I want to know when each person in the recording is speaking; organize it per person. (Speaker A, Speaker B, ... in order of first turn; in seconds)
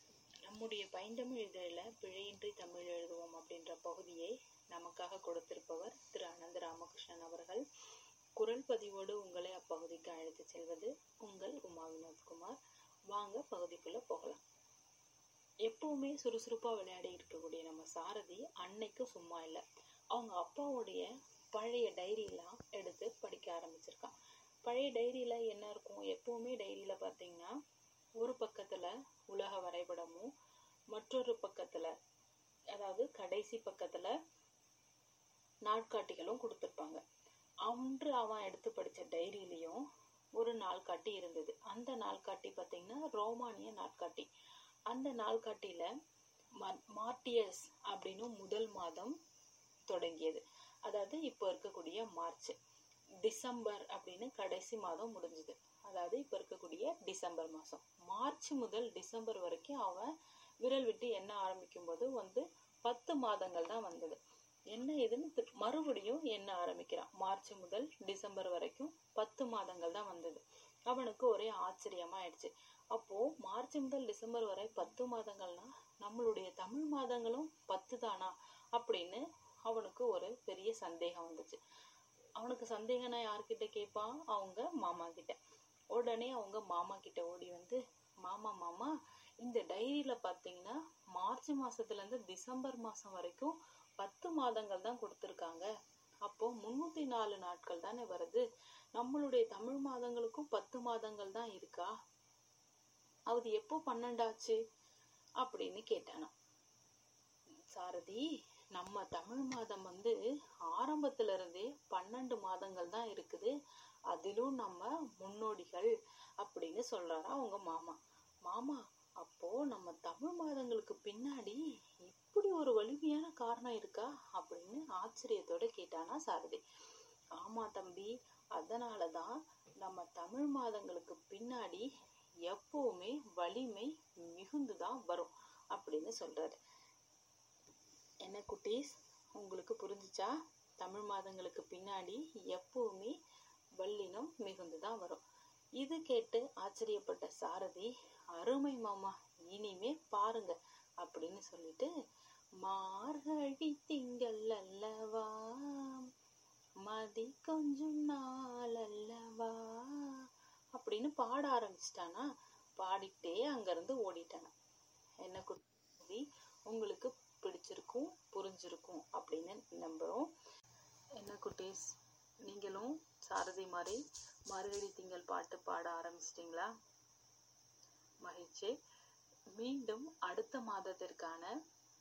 Speaker A: 0.5-7.6, 8.4-12.6, 13.1-14.4, 15.7-19.6, 20.1-24.1, 24.6-27.5, 28.2-30.3, 30.9-31.9, 32.7-34.1, 35.7-37.0, 37.7-39.8, 40.4-44.3, 44.9-45.9, 46.6-49.1, 49.9-52.5, 53.2-60.1, 60.6-64.2, 64.7-81.6, 82.4-85.4, 85.9-88.9, 89.4-95.7, 96.2-98.4, 99.0-101.9, 103.3-104.6, 105.4-106.3, 107.7-108.2, 108.7-110.2, 110.7-113.5, 114.1-126.6, 127.4-131.8, 132.5-136.6, 138.2-143.1, 143.8-145.2, 145.8-151.9, 152.6-156.1, 156.8-160.2, 160.7-162.3, 162.8-164.5, 165.2-170.3, 171.2-171.9, 172.5-176.7, 178.2-178.7, 179.6-181.5